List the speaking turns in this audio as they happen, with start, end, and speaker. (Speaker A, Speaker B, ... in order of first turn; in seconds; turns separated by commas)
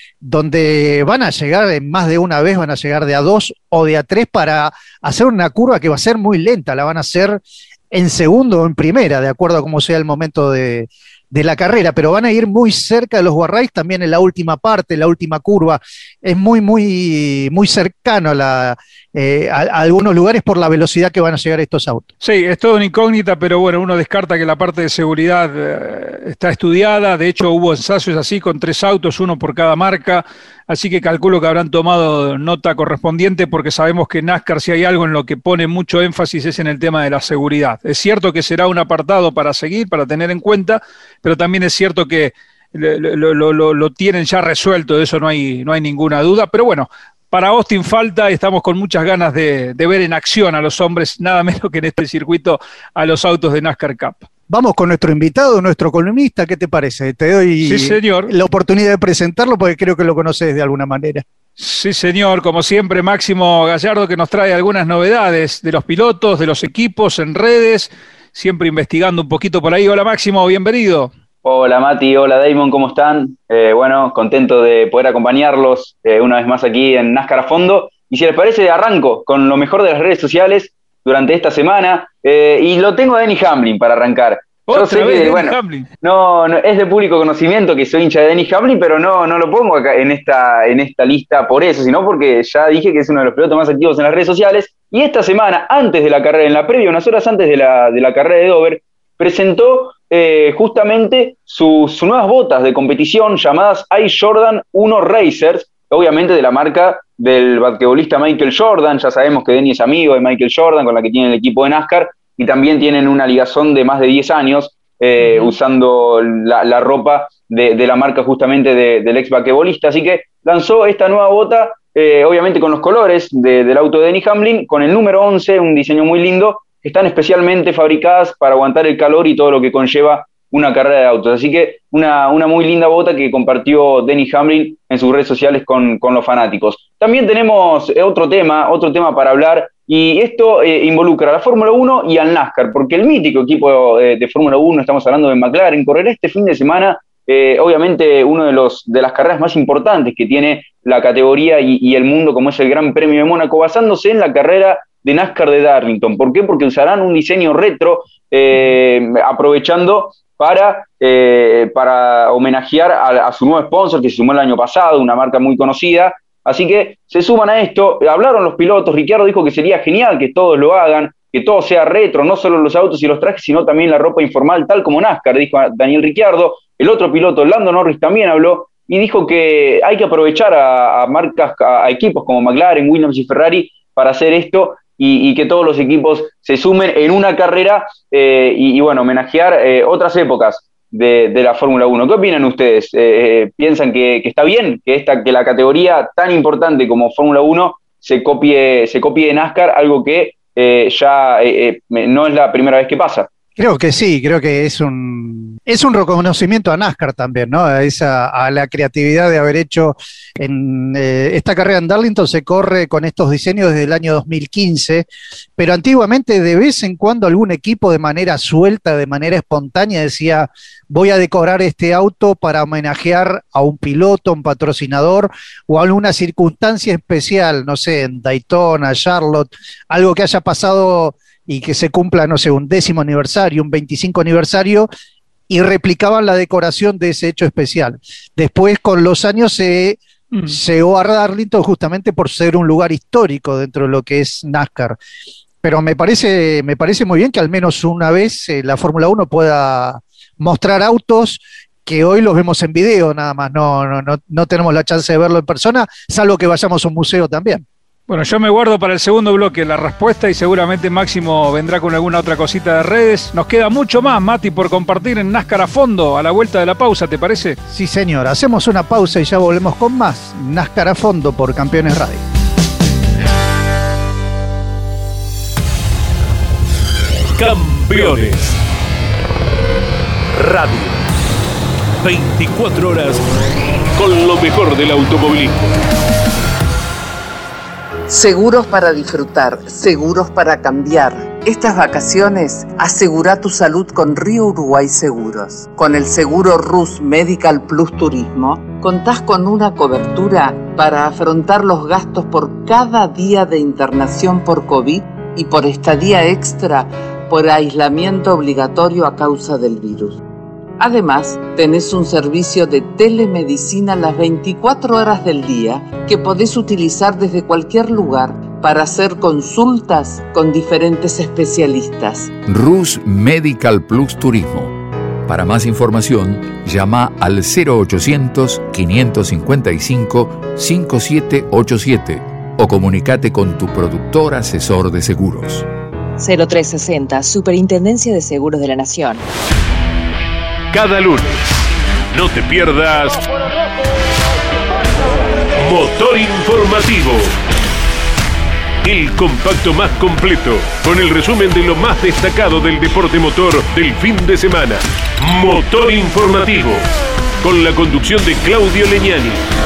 Speaker A: 0.2-22.1, Speaker B: 22.2-54.3, Speaker A: 54.5-61.2, Speaker B: 57.6-58.3, Speaker B: 61.6-71.1, Speaker C: 71.4-203.3, Speaker B: 84.7-85.9, Speaker B: 115.2-115.6, Speaker A: 203.6-234.9, Speaker A: 235.5-245.0, Speaker B: 240.3-240.6, Speaker A: 245.6-257.6, Speaker B: 258.1-267.6, Speaker A: 267.7-272.2, Speaker D: 277.4-278.6, Speaker D: 280.3-281.0, Speaker D: 282.0-283.2, Speaker D: 284.0-285.7, Speaker E: 288.1-310.2, Speaker E: 310.8-322.3, Speaker F: 322.5-335.7, Speaker G: 336.2-339.2, Speaker D: 340.7-341.4, Speaker D: 342.1-343.3, Speaker D: 345.6-347.3, Speaker D: 348.8-356.9, Speaker D: 357.4-359.4